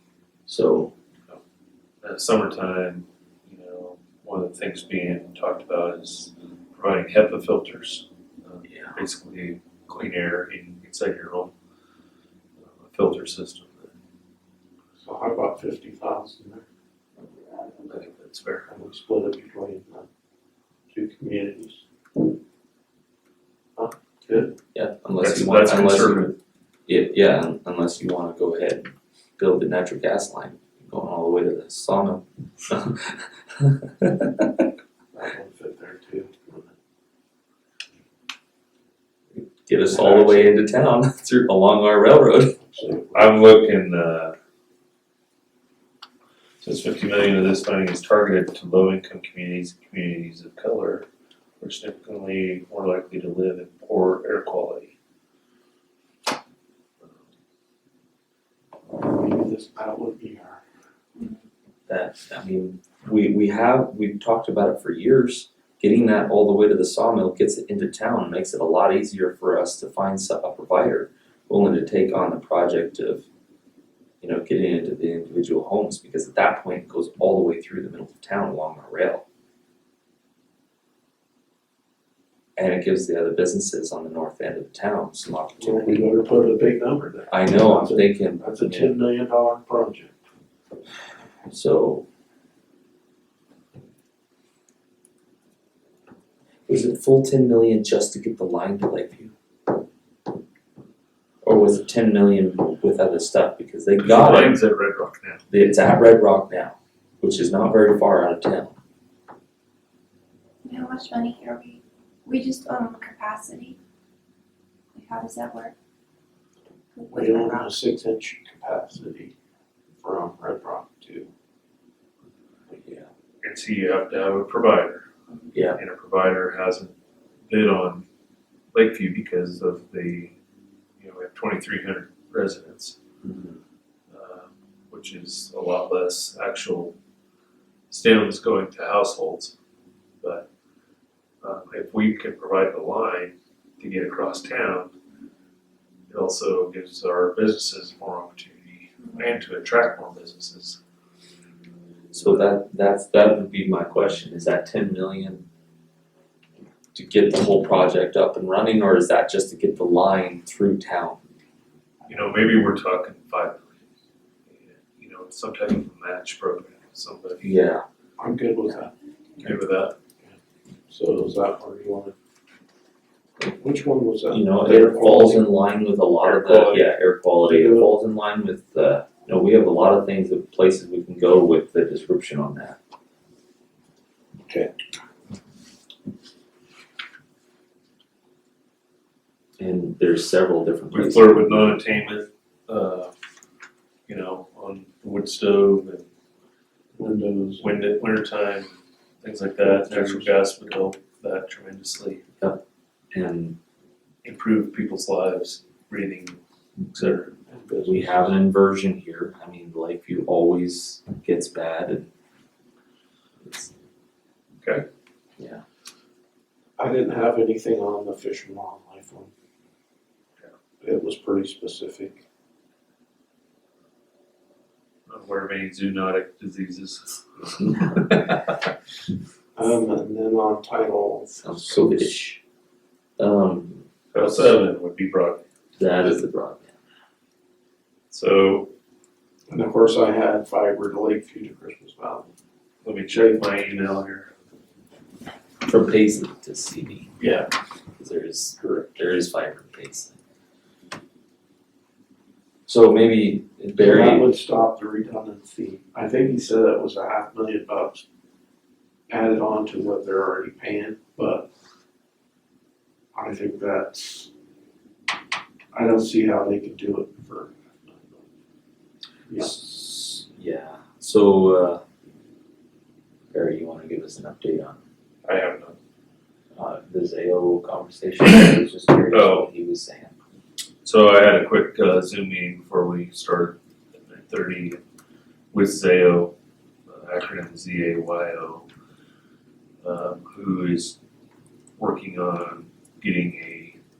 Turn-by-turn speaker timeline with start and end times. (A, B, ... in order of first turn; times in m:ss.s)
0:00.5-0:00.9 A
0:02.0-0:11.5 B
0:08.6-0:09.0 A
0:12.6-0:13.9 B
0:15.0-0:16.6 C
0:17.8-0:18.7 B
0:18.7-0:20.1 C
0:20.9-0:21.8 C
0:23.8-0:24.6 C
0:24.7-0:26.3 A
0:25.2-0:26.3 B
0:26.9-0:34.7 A
0:35.1-0:36.7 C
0:39.4-0:42.6 A
0:39.9-0:40.5 C
0:42.6-0:43.3 C
0:43.1-0:44.4 B
0:46.6-0:51.1 B
0:51.6-0:54.9 B
0:59.0-1:00.6 C
1:01.9-1:13.3 A
1:14.2-1:19.2 A
1:22.6-1:26.1 A
1:25.6-1:30.2 C
1:27.3-1:29.0 A
1:31.5-1:32.0 A
1:36.7-1:39.3 A
1:41.4-1:44.6 A
1:44.0-1:45.4 B
1:45.5-1:48.8 A
1:50.6-1:53.8 D
1:55.0-1:55.8 D
1:56.9-1:57.7 D
1:57.1-1:59.3 C
2:00.0-2:01.3 C
2:03.4-2:05.1 B
2:05.5-2:05.8 A
2:05.8-2:06.9 B
2:07.5-2:08.0 B
2:08.7-2:10.3 B
2:11.0-2:13.0 B
2:13.2-2:13.6 A
2:14.1-2:16.9 B
2:17.9-2:19.5 B
2:20.2-2:20.5 B
2:21.4-2:24.9 B
2:26.1-2:30.8 B
2:32.1-2:32.5 B
2:32.1-2:35.4 A
2:36.9-2:41.2 A
2:42.1-2:43.8 B
2:44.5-2:47.5 B
2:47.4-2:47.8 A
2:48.2-2:49.6 C
2:49.4-2:49.9 B
2:50.9-2:52.1 C
2:53.4-2:55.5 C
2:54.3-3:02.8 A
2:56.2-2:56.9 B
2:57.4-2:57.9 C
3:04.4-3:04.7 C
3:09.6-3:11.8 A
3:10.9-3:13.1 B
3:14.1-3:16.1 B
3:17.0-3:17.8 C
3:17.6-3:18.7 B
3:19.2-3:22.2 B
3:19.6-3:20.3 C
3:22.4-3:23.6 A
3:24.2-3:26.4 B
3:26.9-3:27.3 B
3:27.5-3:28.4 C
3:27.8-3:32.1 A
3:33.4-3:33.7 A
3:34.6-3:34.8 B
3:36.8-3:39.3 C
3:40.8-3:42.2 C
3:45.1-3:48.7 B
3:49.6-3:52.1 C
3:51.4-3:52.4 A
3:53.2-3:54.3 A
3:54.1-3:55.4 B
3:55.8-3:56.7 A
3:58.1-3:58.7 B
3:59.5-4:02.3 C
4:02.8-4:04.3 B
4:05.6-4:07.1 A
4:07.2-4:07.5 C
4:08.0-4:10.2 A
4:12.7-4:14.3 A
4:13.8-4:18.0 C
4:19.1-4:21.5 C
4:23.1-4:24.3 C
4:25.7-4:28.2 C
4:29.4-4:31.8 A
4:33.3-4:34.8 A
4:35.2-4:35.8 B
4:36.6-4:40.1 A
4:39.1-4:39.5 B
4:40.8-4:44.8 B
4:45.5-4:46.3 B
4:46.9-4:48.6 B
4:49.8-4:51.0 B
4:51.8-4:53.8 B